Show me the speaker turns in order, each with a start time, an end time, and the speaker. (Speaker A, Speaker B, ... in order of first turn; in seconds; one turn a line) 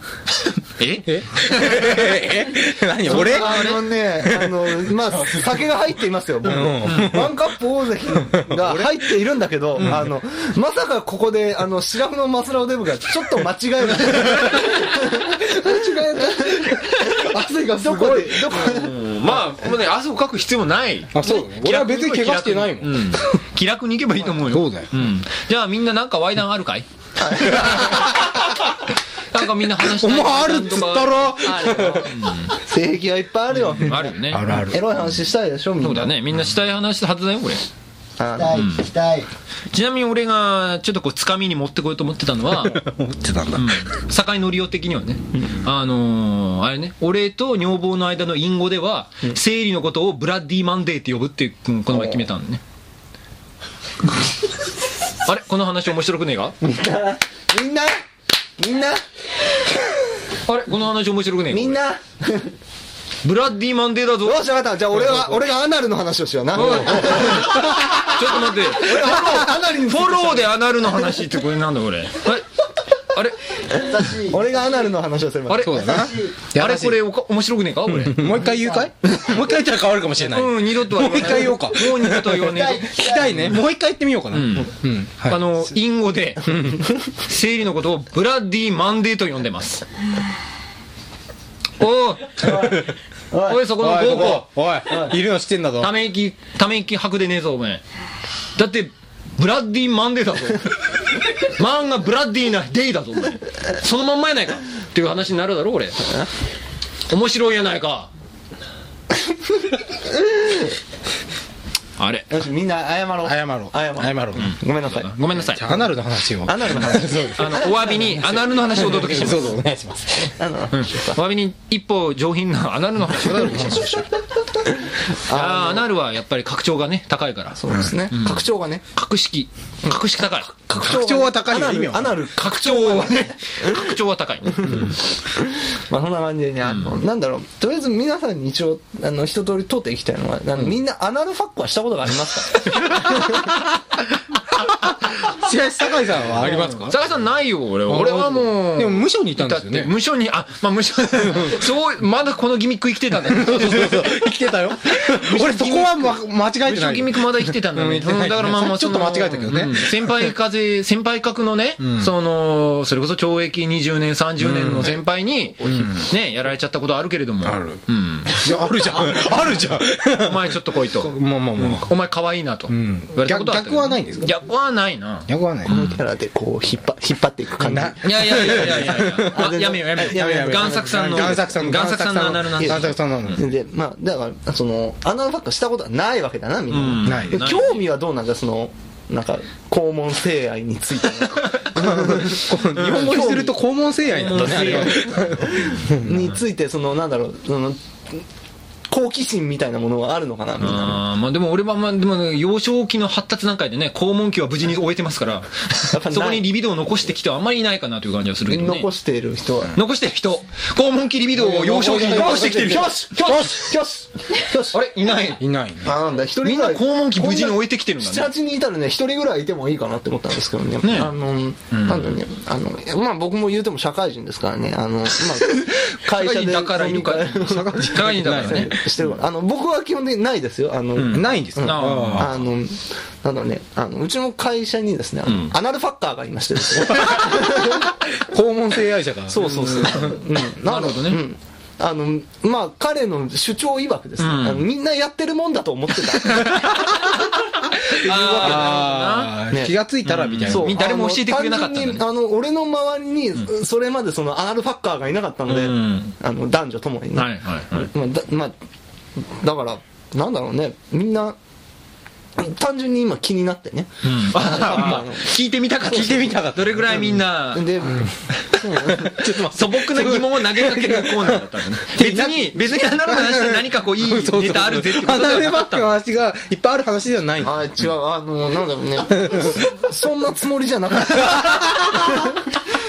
Speaker A: 0.8-2.2
Speaker B: 1.0-4.7
Speaker C: 3.0-19.3
Speaker A: 3.1-3.8
Speaker B: 6.4-7.4
Speaker A: 6.8-7.2
Speaker B: 8.1-9.0
Speaker A: 14.1-14.8
Speaker B: 15.4-18.5
Speaker A: 18.5-26.9
Speaker B: 21.1-23.4
Speaker B: 24.4-24.9
Speaker C: 27.2-28.1
Speaker A: 27.4-32.5
Speaker B: 27.5-28.4
Speaker B: 29.8-32.3
Speaker C: 31.6-32.0
Speaker D: 31.7-32.0
Speaker C: 32.5-36.1
Speaker A: 33.5-34.5
Speaker B: 34.3-34.8
Speaker A: 35.8-37.6
Speaker C: 38.2-38.6
Speaker D: 38.4-39.3
Speaker A: 38.5-38.9
Speaker A: 39.7-42.8
Speaker B: 42.5-43.9
Speaker A: 43.5-52.6
Speaker A: 55.2-56.5
Speaker C: 56.6-58.0
Speaker C: 58.6-59.0
Speaker A: 60.5-61.8
Speaker C: 61.5-62.5
Speaker A: 63.2-64.4
Speaker C: 64.2-70.5
Speaker A: 66.5-72.5
Speaker B: 66.6-68.1
Speaker A: 73.0-73.4
Speaker C: 73.8-75.9
Speaker D: 73.8-74.4
Speaker A: 75.5-76.0
Speaker B: 75.5-77.0
Speaker A: 76.5-78.5
Speaker B: 77.9-85.5
Speaker A: 80.2-83.5
Speaker D: 82.8-83.3
Speaker A: 84.3-89.8
Speaker B: 86.4-86.9
Speaker A: 91.8-92.8
Speaker C: 92.4-95.1
Speaker B: 92.5-92.9
Speaker A: 93.4-94.5
Speaker B: 93.6-95.9
Speaker A: 95.8-97.8
Speaker A: 98.5-106.0
Speaker A: 107.1-108.1
Speaker C: 110.1-110.7
Speaker A: 112.0-112.3
Speaker C: 112.3-115.1
Speaker B: 113.2-114.5
Speaker A: 114.3-115.7
Speaker B: 115.5-118.1
Speaker C: 116.4-117.8
Speaker A: 117.3-119.5
Speaker B: 118.6-120.3
Speaker C: 120.2-121.2
Speaker A: 120.7-123.8
Speaker B: 123.2-124.1
Speaker C: 124.7-125.9
Speaker A: 125.3-127.6
Speaker C: 127.6-128.8
Speaker A: 128.1-130.5
Speaker C: 129.8-133.8
Speaker B: 130.8-132.2
Speaker A: 132.3-134.9
Speaker C: 134.5-143.4
Speaker B: 144.3-147.0
Speaker A: 146.4-154.2
Speaker B: 147.9-149.9
Speaker B: 151.3-151.6
Speaker B: 153.2-160.3
Speaker A: 154.9-168.4
Speaker B: 164.4-165.0
Speaker C: 165.6-165.9
Speaker B: 165.6-166.0
Speaker B: 167.4-171.9
Speaker A: 170.2-176.0
Speaker B: 172.7-174.3
Speaker B: 175.3-175.7
Speaker C: 175.7-181.6
Speaker B: 177.6-183.4
Speaker A: 178.0-183.4
Speaker C: 182.6-193.6
Speaker A: 186.7-187.8
Speaker B: 187.0-187.4
Speaker B: 191.7-196.1
Speaker A: 192.7-193.4
Speaker A: 194.1-195.7
Speaker C: 194.4-198.2
Speaker C: 198.9-201.0
Speaker A: 200.6-208.9
Speaker C: 205.9-206.4
Speaker C: 208.4-209.8
Speaker A: 209.7-213.4
Speaker B: 211.3-213.8
Speaker C: 211.9-214.8
Speaker A: 214.7-215.4
Speaker B: 215.4-215.9
Speaker C: 215.8-237.9
Speaker A: 216.4-218.3
Speaker A: 220.8-221.1
Speaker A: 221.7-222.2
Speaker A: 225.4-228.8
Speaker B: 227.4-228.7
Speaker A: 230.9-232.4
Speaker B: 231.1-232.3
Speaker A: 235.2-235.5
Speaker B: 236.9-239.4
Speaker C: 239.3-247.2
Speaker A: 239.3-241.2
Speaker A: 244.2-244.7
Speaker B: 246.6-247.1
Speaker A: 247.8-249.4
Speaker B: 247.9-250.8
Speaker C: 247.9-248.9
Speaker C: 249.5-249.8
Speaker A: 250.0-252.0
Speaker C: 250.4-258.5
Speaker A: 255.5-256.1
Speaker A: 257.1-257.9
Speaker C: 259.2-261.4
Speaker C: 262.4-265.3
Speaker A: 264.0-268.0
Speaker B: 265.8-266.9
Speaker C: 267.5-269.8
Speaker B: 268.9-277.7
Speaker A: 269.2-275.9
Speaker C: 277.4-282.4
Speaker B: 281.2-282.2